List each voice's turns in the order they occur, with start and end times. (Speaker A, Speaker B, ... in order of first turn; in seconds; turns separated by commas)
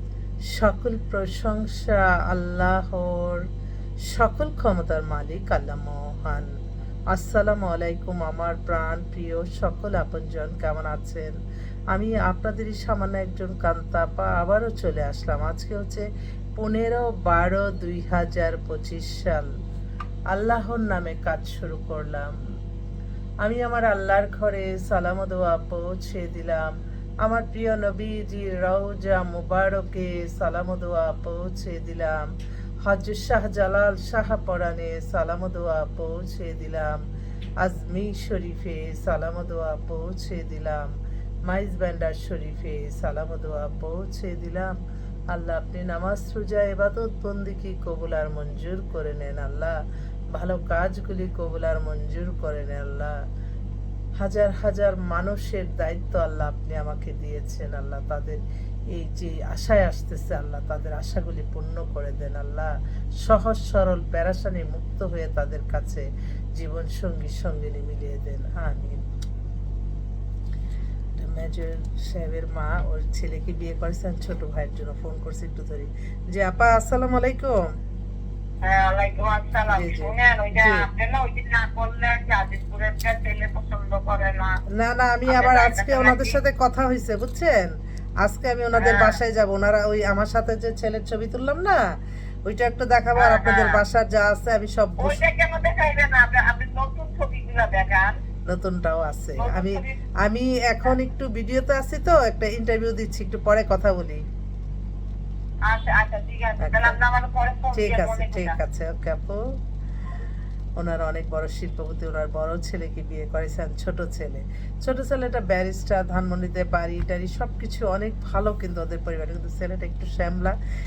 Speaker A: 0.5-3.4, Speaker A: 4.1-6.5, Speaker A: 7.1-11.3, Speaker A: 11.9-16.1, Speaker A: 16.6-19.5, Speaker A: 20.3-22.3, Speaker A: 23.4-26.7, Speaker A: 27.2-32.2, Speaker A: 32.9-37.0, Speaker A: 37.6-40.9, Speaker A: 41.5-44.7, Speaker A: 45.3-49.8, Speaker A: 50.4-53.1, Speaker A: 54.2-58.4, Speaker A: 58.9-62.7, Speaker A: 63.2-66.1, Speaker A: 66.6-69.0, Speaker A: 71.2-77.6, Speaker B: 78.6-84.6, Speaker A: 79.7-80.9, Speaker A: 84.8-91.8, Speaker B: 85.3-86.4, Speaker B: 88.8-89.2, Speaker A: 92.5-95.2, Speaker B: 93.2-93.8, Speaker B: 95.0-98.1, Speaker A: 98.5-104.2, Speaker B: 99.4-100.0, Speaker B: 105.7-108.6, Speaker A: 106.6-107.0, Speaker A: 107.8-109.4, Speaker A: 110.8-120.5